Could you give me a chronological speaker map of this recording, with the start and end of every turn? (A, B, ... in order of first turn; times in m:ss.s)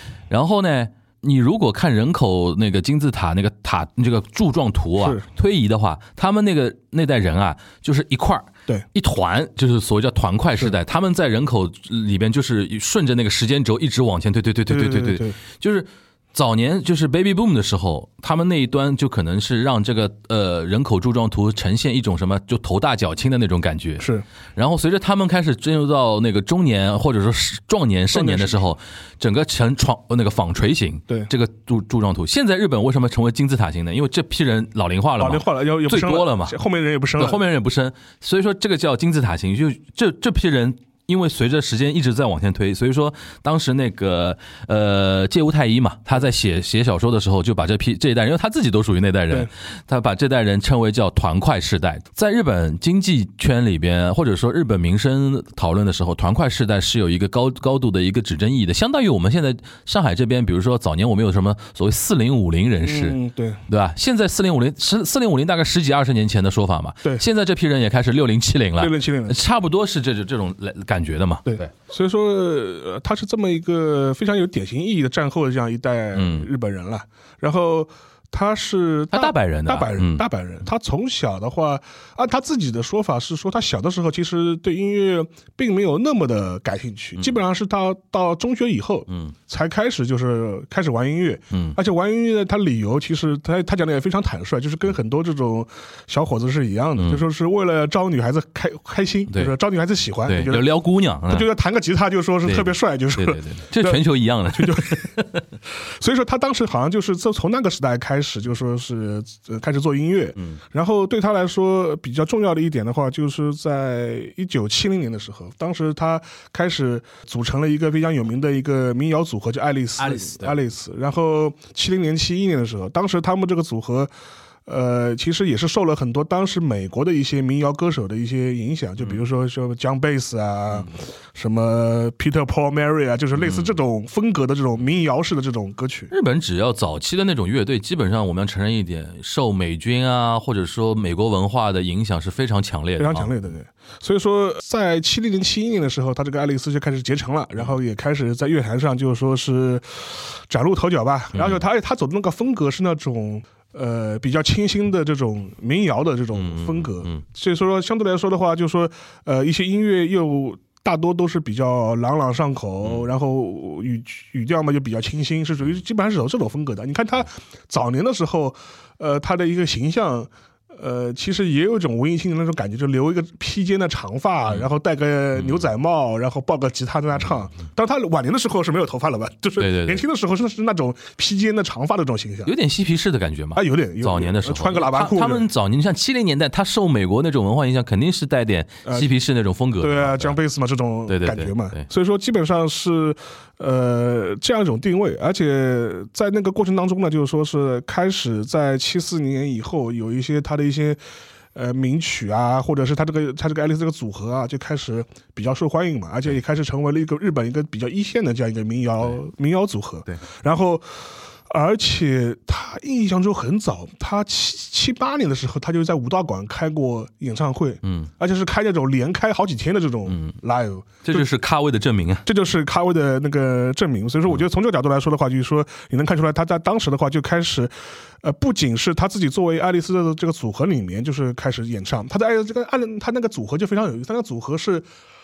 0:00.3-0:36.6 A
0:05.0-0:05.2 B
0:14.7-0:15.4 B
0:28.1-0:28.7 B
0:35.2-0:37.4 B
0:37.2-1:11.7 A
1:02.8-1:03.6 B
1:08.8-1:09.4 B
1:11.5-1:40.6 B
1:16.1-1:16.5 A
1:19.1-1:20.2 A
1:29.1-1:29.3 A
1:31.5-1:31.8 A
1:37.0-1:37.2 A
1:40.3-1:41.5 A
1:41.3-1:45.1 B
1:42.5-1:45.5 A
1:45.7-2:04.1 B
2:00.0-2:00.5 A
2:04.7-2:16.1 B
2:13.4-2:13.7 A
2:16.1-2:23.3 A
2:23.0-3:02.5 B
2:31.3-2:31.6 A
2:36.4-2:37.2 A
2:42.8-2:43.1 A
2:59.6-3:00.0 A
3:02.4-3:10.4 A
3:03.6-3:05.5 B
3:08.8-3:09.1 B
3:09.8-3:21.0 B
3:11.1-3:11.8 A
3:21.6-3:41.3 B
3:37.8-3:38.1 A
3:40.1-3:40.4 A
3:41.0-3:42.2 A
3:42.3-3:54.9 B